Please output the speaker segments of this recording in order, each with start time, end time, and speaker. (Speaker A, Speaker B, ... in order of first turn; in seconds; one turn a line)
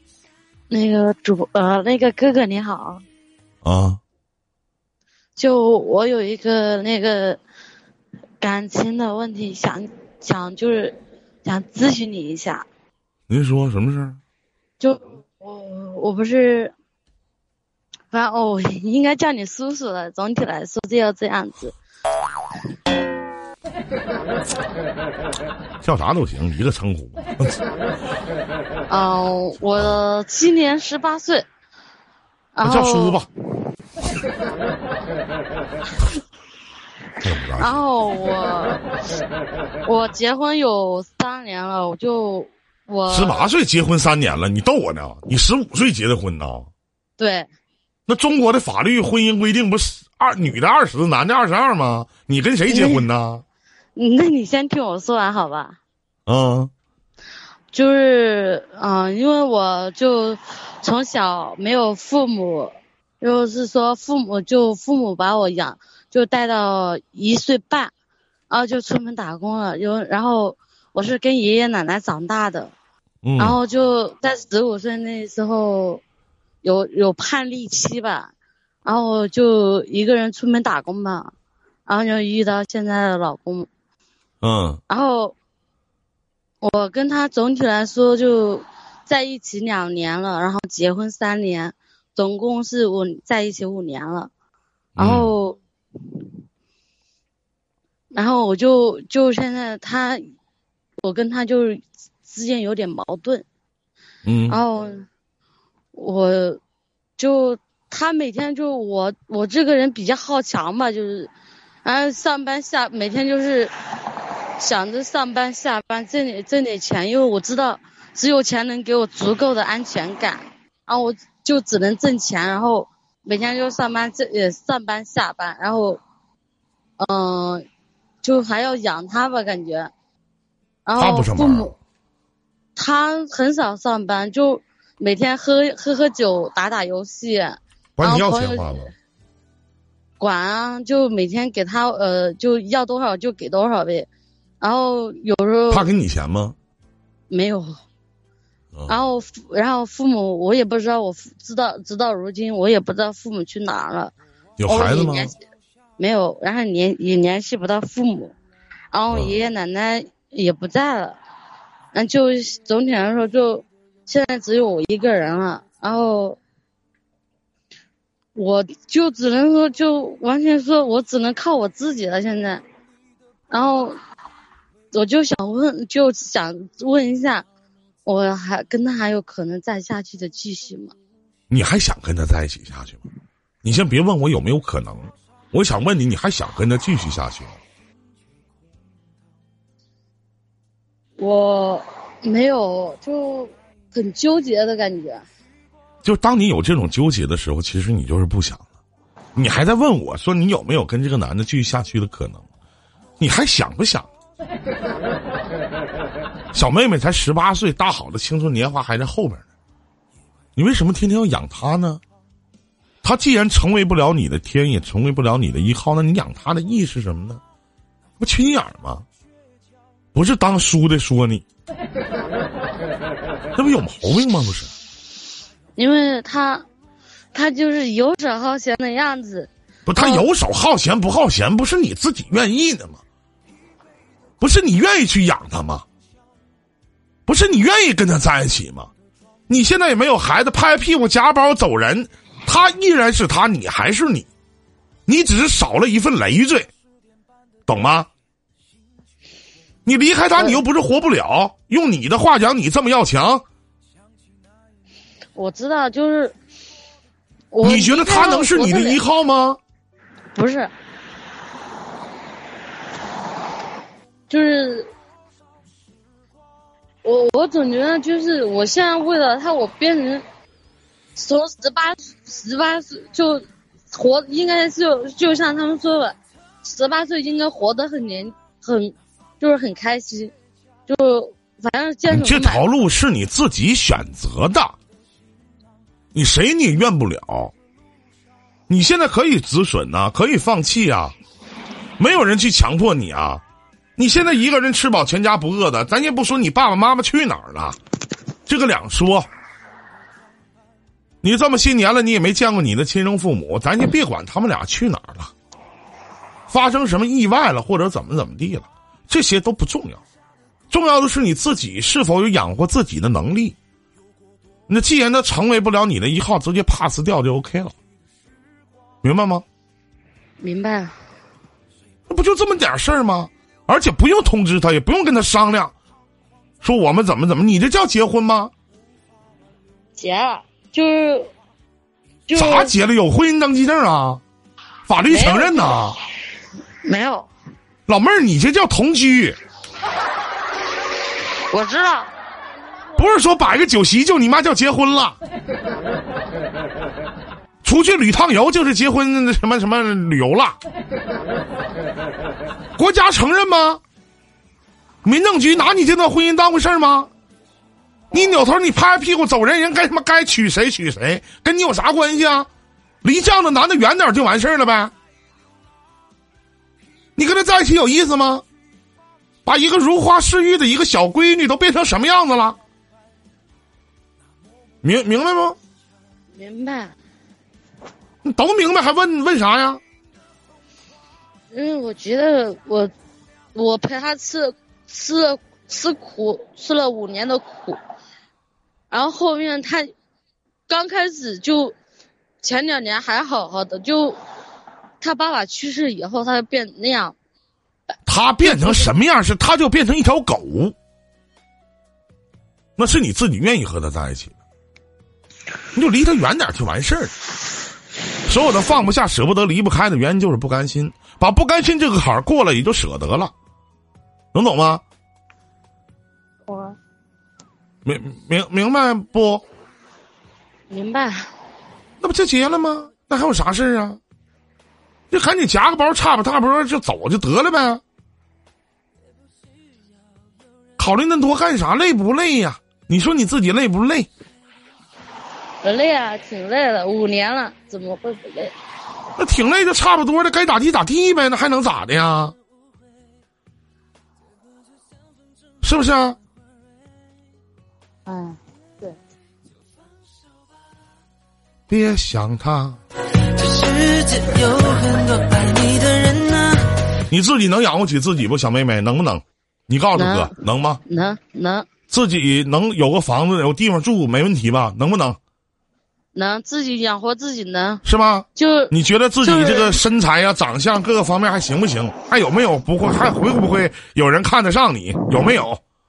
Speaker A: 0.7-3.0
Speaker B: 3.6-4.0
Speaker A: 5.4-7.4
Speaker A: 8.4-12.7
Speaker B: 13.3-14.2
Speaker A: 14.8-16.7
Speaker A: 18.1-21.8
Speaker B: 25.8-27.6
Speaker A: 28.9-31.5
Speaker A: 32.5-33.2
Speaker B: 32.6-33.3
Speaker B: 37.2-37.8
Speaker A: 37.6-38.9
Speaker A: 39.9-43.5
Speaker B: 43.1-46.7
Speaker A: 47.2-47.5
Speaker B: 48.1-53.4
Speaker A: 52.7-53.1
Speaker A: 54.0-55.8
Speaker B: 56.3-56.7
Speaker A: 57.7-67.9
Speaker A: 68.5-72.7
Speaker B: 73.2-73.6
Speaker A: 73.4-76.0
Speaker A: 76.6-78.3
Speaker A: 78.8-81.3
Speaker A: 81.9-83.7
Speaker B: 84.4-84.8
Speaker A: 84.9-85.4
Speaker A: 86.6-94.3
Speaker B: 95.0-95.3
Speaker A: 95.0-95.6
Speaker A: 98.1-100.3
Speaker A: 101.0-103.5
Speaker B: 104.2-104.6
Speaker A: 104.5-105.1
Speaker A: 105.9-106.6
Speaker A: 107.2-111.3
Speaker A: 111.8-126.0
Speaker A: 127.0-127.7
Speaker A: 128.2-129.9
Speaker A: 130.9-131.7
Speaker B: 131.0-131.7
Speaker A: 132.8-138.9
Speaker B: 138.0-138.9
Speaker A: 140.2-144.1
Speaker A: 144.6-145.9
Speaker B: 145.7-146.6
Speaker A: 147.3-147.7
Speaker B: 148.7-149.0
Speaker A: 148.9-154.1
Speaker B: 154.6-155.3
Speaker A: 154.7-155.3
Speaker A: 156.0-158.3
Speaker A: 158.9-161.2
Speaker B: 159.1-159.3
Speaker A: 161.9-166.4
Speaker A: 168.3-172.6
Speaker A: 173.5-174.0
Speaker A: 174.9-177.4
Speaker A: 178.1-180.9
Speaker B: 181.5-183.0
Speaker B: 183.6-187.6
Speaker A: 191.2-195.2
Speaker B: 196.0-198.6
Speaker B: 199.4-202.5
Speaker B: 203.2-204.1
Speaker B: 206.5-209.5
Speaker B: 210.6-212.0
Speaker B: 213.0-217.4
Speaker B: 218.2-219.1
Speaker B: 220.1-221.5
Speaker B: 223.6-224.7
Speaker A: 225.8-226.7
Speaker A: 227.3-230.3
Speaker B: 229.9-233.0
Speaker B: 234.4-235.8
Speaker B: 237.3-238.9
Speaker B: 239.5-244.3
Speaker B: 245.1-246.7
Speaker B: 247.7-248.1
Speaker B: 249.9-253.4
Speaker A: 255.3-256.4
Speaker A: 257.5-259.0
Speaker B: 257.6-259.6
Speaker A: 260.4-260.7
Speaker A: 264.3-264.9
Speaker A: 267.0-270.2
Speaker A: 271.2-280.3
Speaker A: 280.9-282.7
Speaker B: 282.1-284.8
Speaker B: 286.1-287.5
Speaker B: 288.7-291.2
Speaker B: 292.0-293.4
Speaker B: 294.0-297.8
Speaker B: 298.5-299.3
Speaker B: 301.2-305.3
Speaker B: 306.5-310.0
Speaker B: 310.7-313.6
Speaker B: 314.7-317.7
Speaker B: 319.0-319.4
Speaker A: 320.4-320.9
Speaker B: 322.1-325.7
Speaker B: 326.6-328.5
Speaker A: 330.0-331.3
Speaker A: 332.3-332.8
Speaker B: 332.3-334.2
Speaker B: 334.9-336.0
Speaker A: 335.1-335.9
Speaker A: 336.9-337.3
Speaker B: 337.9-339.4
Speaker A: 341.5-342.1
Speaker B: 343.0-345.2
Speaker B: 347.6-350.6
Speaker B: 352.8-353.8
Speaker B: 355.0-357.1
Speaker B: 358.1-362.5
Speaker B: 363.0-364.9
Speaker B: 367.2-368.4
Speaker B: 369.5-372.6
Speaker B: 374.8-375.6
Speaker A: 376.4-376.9
Speaker B: 378.2-379.8
Speaker A: 381.5-382.9
Speaker A: 383.6-387.8
Speaker A: 388.9-389.9
Speaker A: 390.7-391.8
Speaker A: 392.4-394.2
Speaker A: 395.0-397.1
Speaker B: 398.1-400.8
Speaker A: 398.4-398.9
Speaker B: 402.8-404.4
Speaker B: 405.8-407.1
Speaker B: 408.2-413.3
Speaker B: 414.3-414.8
Speaker A: 416.5-416.8
Speaker B: 417.9-419.4
Speaker A: 420.7-421.3
Speaker B: 422.0-424.0
Speaker B: 425.1-427.8
Speaker B: 430.8-434.1
Speaker A: 435.6-438.5
Speaker B: 439.2-442.4
Speaker B: 445.6-446.2
Speaker A: 448.1-448.9
Speaker B: 451.7-452.8
Speaker C: 453.4-456.6
Speaker B: 457.1-460.8
Speaker A: 460.0-461.7
Speaker B: 461.9-465.2
Speaker A: 466.1-467.8
Speaker B: 467.8-475.6
Speaker A: 468.4-469.8